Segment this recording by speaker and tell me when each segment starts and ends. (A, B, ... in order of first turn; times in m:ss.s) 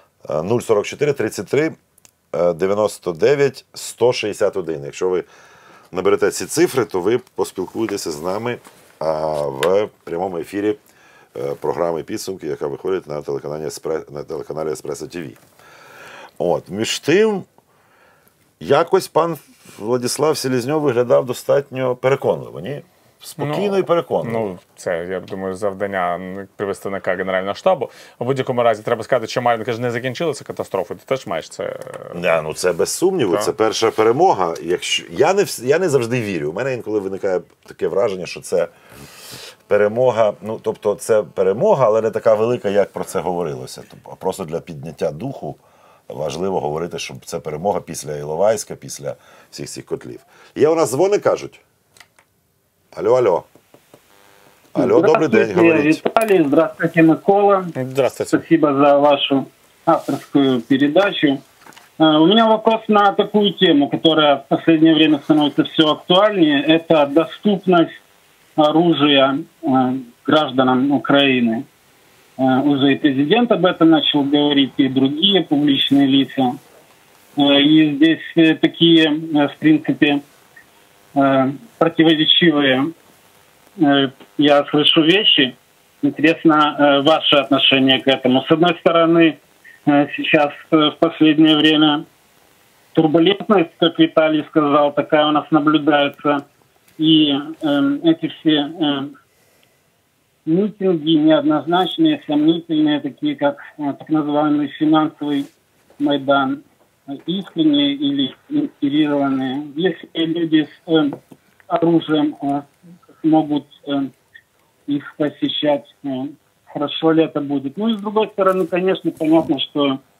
0:00.2-0:01.7 A
0:02.3-0:05.2 A
0:05.9-0:10.8 A
0:11.3-0:15.4 A
0:16.4-0:17.4 A
0:18.6-0:24.5 A
0:23.4-0:32.2 B
0:32.1-0:38.7 A
0:39.7-0:51.6 A
0:52.9-0:53.4 A
0:54.7-0:56.0 A
0:54.8-0:57.7 C
0:57.8-0:58.4 B
0:58.3-1:01.4 C
1:02.0-1:08.0 C
1:08.6-1:11.6 C
1:12.4-1:16.6 C
1:17.4-1:20.2 C
1:21.1-1:22.9 C
1:23.8-1:32.0 C
1:32.9-1:36.4 C
1:37.0-1:39.1 C
1:40.4-1:46.6 C
1:47.2-1:51.2 C
1:51.7-1:52.7 C
1:53.2-1:54.1 C
1:54.9-2:00.0 C